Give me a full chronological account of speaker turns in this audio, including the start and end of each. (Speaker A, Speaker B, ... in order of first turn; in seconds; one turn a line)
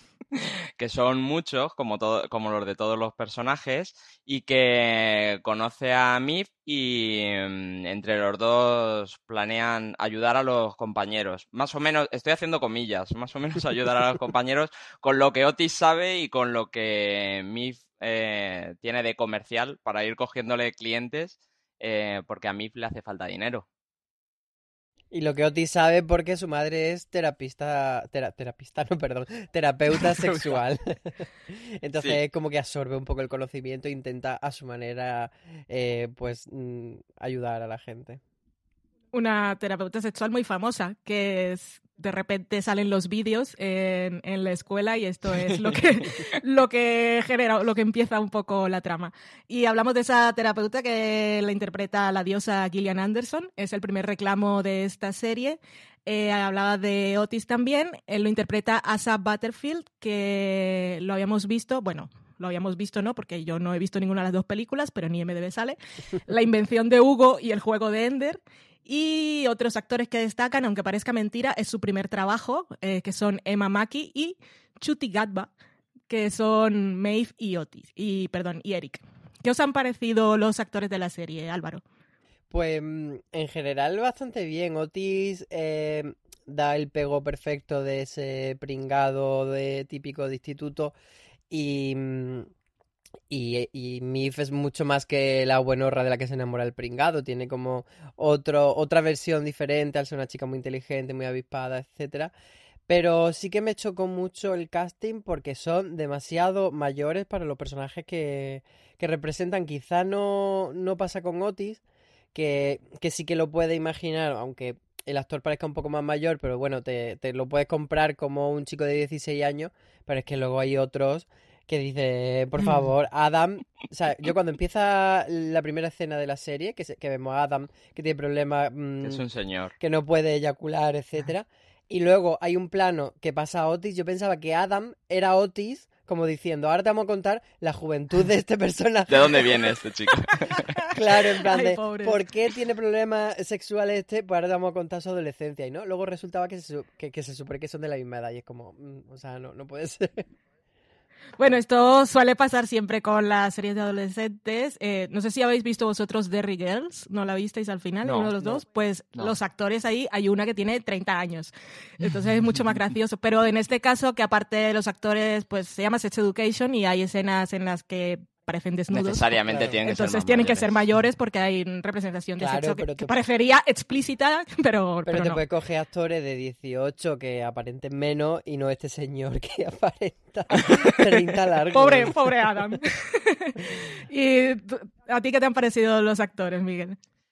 Speaker A: 0.3-23.6
Speaker B: 25.1-38.2
Speaker A: 30.1-30.6
Speaker C: 39.1-75.5
Speaker C: 76.1-81.8
Speaker B: 82.5-91.0
Speaker B: 91.5-92.5
Speaker B: 93.3-102.3
Speaker B: 102.9-111.8
Speaker B: 112.3-129.2
Speaker A: 129.0-129.7
Speaker B: 129.8-139.6
Speaker A: 139.1-140.7
Speaker B: 140.9-150.3
Speaker C: 141.4-142.2
Speaker C: 151.4-175.4
Speaker A: 158.0-158.3
Speaker A: 168.9-170.7
Speaker B: 169.5-169.8
Speaker B: 172.4-173.2
Speaker B: 175.1-182.5
Speaker C: 181.7-187.0